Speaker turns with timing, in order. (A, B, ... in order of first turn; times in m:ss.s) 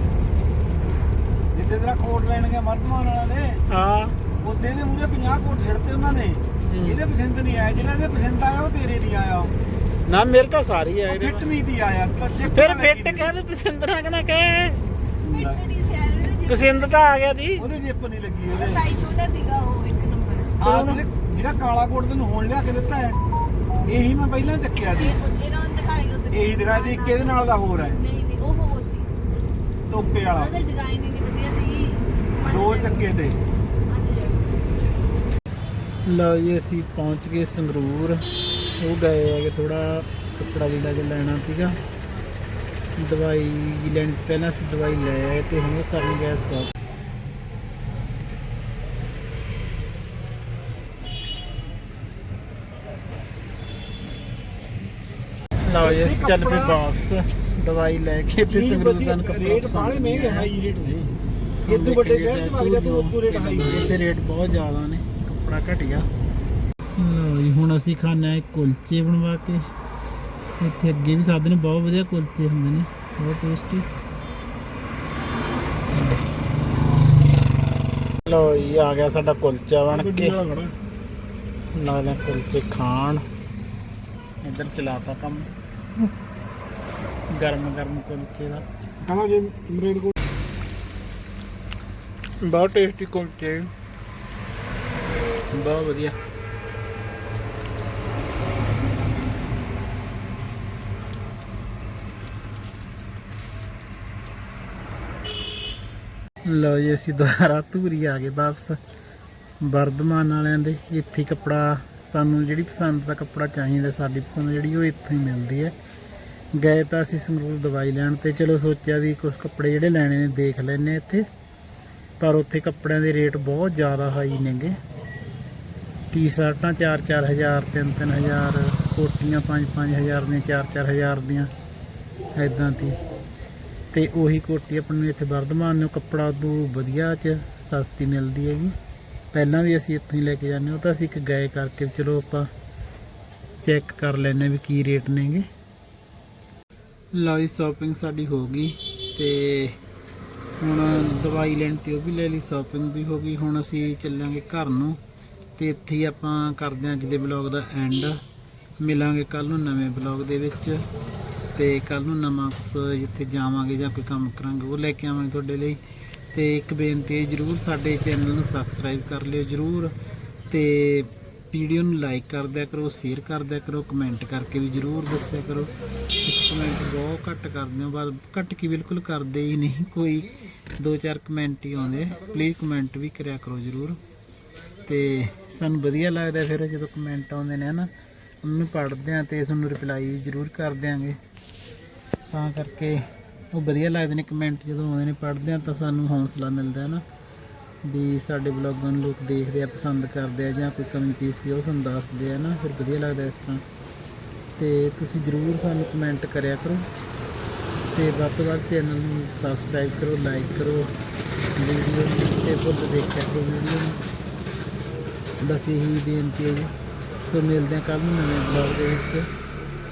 0:01.5-0:03.6 A
0:03.7-0:04.2 B
0:04.4-0:09.5 A
0:06.7-0:07.0 B
0:10.1-0:11.4 B
0:11.1-0:13.3 A
0:12.5-0:14.8 B
0:15.3-0:15.6 A
0:15.3-0:17.0 C
0:16.5-0:17.6 B
0:17.6-0:18.9 A
0:18.5-0:20.6 C
0:20.6-0:23.2 A
0:20.6-0:21.0 B
0:23.8-0:25.2 A
0:24.9-0:29.1 C
0:26.3-0:28.0 A
0:29.9-0:30.6 A
0:30.3-0:33.1 C
0:32.4-0:33.4 A
0:33.9-0:34.8 C
0:36.1-0:38.2 B
0:38.8-0:41.8 B
0:43.0-0:46.7 B
0:55.7-1:00.5 B
0:55.8-0:56.8 A
0:58.5-1:01.1 A
1:01.7-1:04.0 A
1:01.7-1:06.1 B
1:07.0-1:09.6 B
1:10.6-1:13.9 B
1:18.2-1:20.4 B
1:19.9-1:20.7 A
1:21.7-1:23.2 B
1:24.4-1:25.5 B
1:27.3-1:28.6 B
1:29.0-1:30.2 A
1:32.4-1:33.7 B
1:35.5-1:36.2 B
1:46.4-1:48.8 B
1:49.6-1:55.8 B
1:56.6-2:01.2 B
2:02.2-2:04.8 B
2:06.1-2:11.5 B
2:12.4-2:13.0 B
2:13.9-2:18.7 B
2:19.3-2:22.5 B
2:23.6-2:25.5 B
2:27.1-2:29.8 B
2:30.6-2:35.0 B
2:35.6-2:38.2 B
2:38.8-2:40.8 B
2:41.6-2:45.8 B
2:46.3-2:49.9 B
2:50.5-2:55.7 B
2:56.2-3:04.0 B
3:04.9-3:07.9 B
3:08.4-3:11.2 B
3:12.3-3:17.0 B
3:17.8-3:23.6 B
3:24.6-3:26.9 B
3:27.9-3:30.9 B
3:31.6-3:34.0 B
3:35.4-3:36.7 B
3:37.2-3:39.3 B